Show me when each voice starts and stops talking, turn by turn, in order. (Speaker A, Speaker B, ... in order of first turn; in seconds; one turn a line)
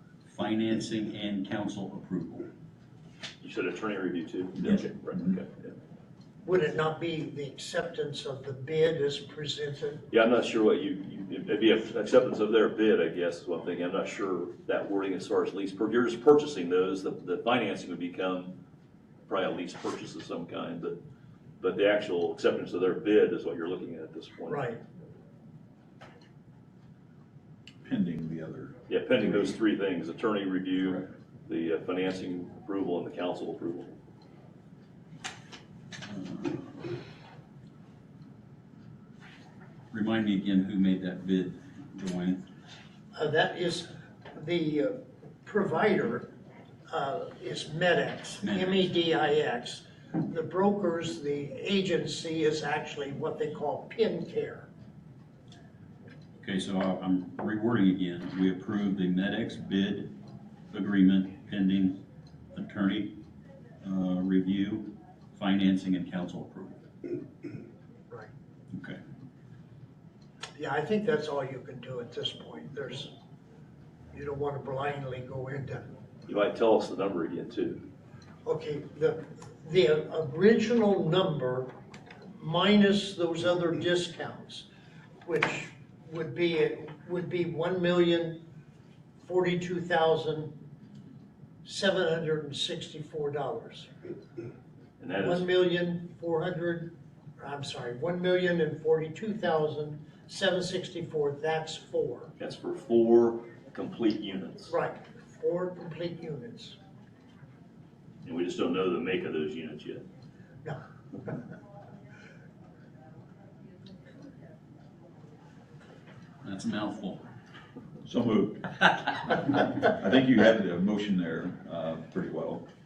Speaker A: 0.3-2.5
Speaker B: 3.4-5.7
Speaker C: 6.5-10.1
Speaker B: 10.1-18.6
Speaker B: 19.3-21.0
Speaker B: 21.6-24.6
Speaker C: 24.5-24.8
Speaker D: 27.9-28.8
Speaker B: 28.9-33.9
Speaker A: 36.2-36.7
Speaker A: 39.9-42.4
Speaker C: 43.1-46.3
Speaker C: 46.9-54.7
Speaker A: 48.4-48.9
Speaker A: 56.4-60.1
Speaker A: 60.7-62.0
Speaker A: 62.5-63.2
Speaker A: 63.8-66.8
Speaker A: 68.7-69.0
Speaker C: 70.6-73.1
Speaker C: 74.1-75.8
Speaker B: 76.3-77.8
Speaker C: 78.5-81.7
Speaker C: 82.4-84.7
Speaker C: 85.2-88.4
Speaker C: 89.2-90.5
Speaker C: 91.7-93.9
Speaker B: 95.0-95.5
Speaker C: 95.2-102.3
Speaker B: 102.4-104.7
Speaker C: 104.7-106.8
Speaker B: 108.2-110.0
Speaker A: 116.4-117.2
Speaker D: 118.0-122.7